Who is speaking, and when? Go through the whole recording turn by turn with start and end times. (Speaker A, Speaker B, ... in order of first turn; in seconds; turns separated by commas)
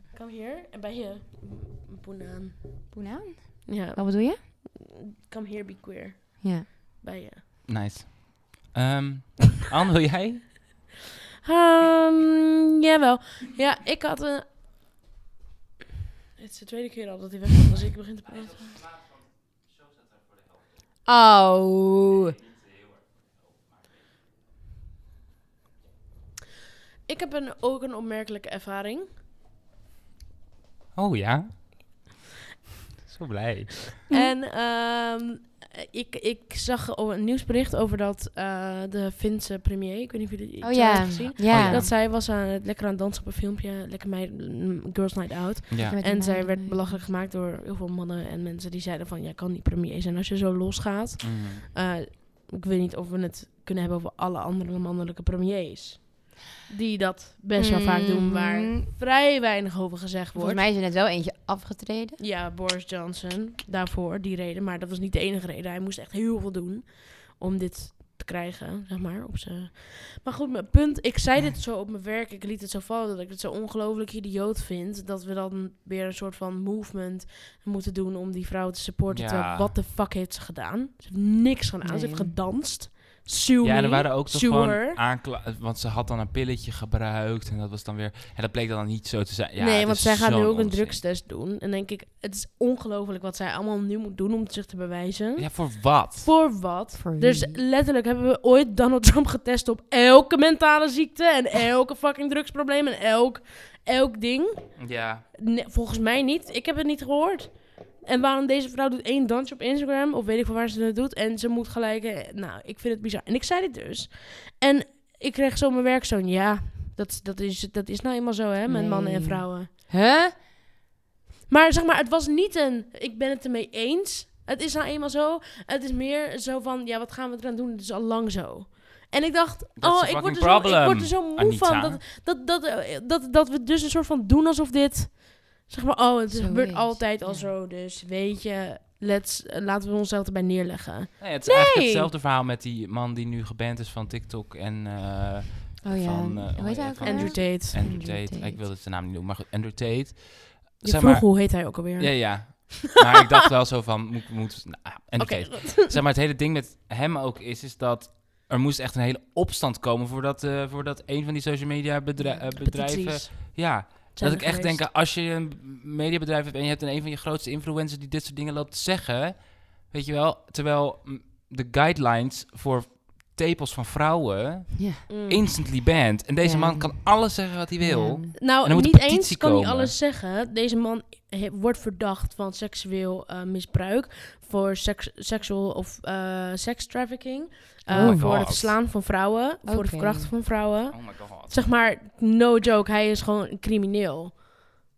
Speaker A: 0.1-2.8, Speaker B: 2.9-4.4, Speaker A: 3.7-7.4, Speaker B: 6.4-6.7, Speaker C: 7.7-10.5, Speaker A: 11.4-14.4, Speaker A: 16.4-18.8, Speaker B: 21.0-22.4, Speaker A: 27.1-29.1, Speaker C: 30.9-31.8, Speaker C: 33.0-33.8, Speaker A: 34.1-60.6, Speaker B: 40.6-41.9, Speaker C: 41.5-41.9, Speaker C: 45.7-46.0, Speaker B: 45.8-47.0, Speaker C: 51.2-51.6, Speaker B: 57.5-58.9, Speaker B: 60.3-62.2, Speaker A: 62.2-85.0, Speaker C: 79.1-79.7, Speaker B: 81.8-82.4, Speaker C: 83.6-91.0, Speaker A: 89.6-104.8, Speaker C: 95.4-96.3, Speaker B: 97.0-97.6, Speaker C: 104.8-105.2, Speaker A: 105.4-119.7, Speaker B: 118.7-120.3, Speaker A: 121.5-142.1, Speaker C: 129.8-132.0, Speaker B: 136.3-137.5, Speaker C: 141.2-179.9, Speaker B: 145.8-148.6, Speaker A: 147.0-147.8, Speaker A: 150.8-152.8, Speaker A: 155.2-156.0, Speaker A: 162.6-164.8, Speaker B: 174.8-175.0, Speaker A: 175.1-175.4, Speaker B: 176.4-178.3, Speaker A: 178.4-194.4, Speaker B: 187.9-188.7, Speaker C: 187.9-188.8, Speaker B: 189.6-190.3, Speaker C: 190.9-191.7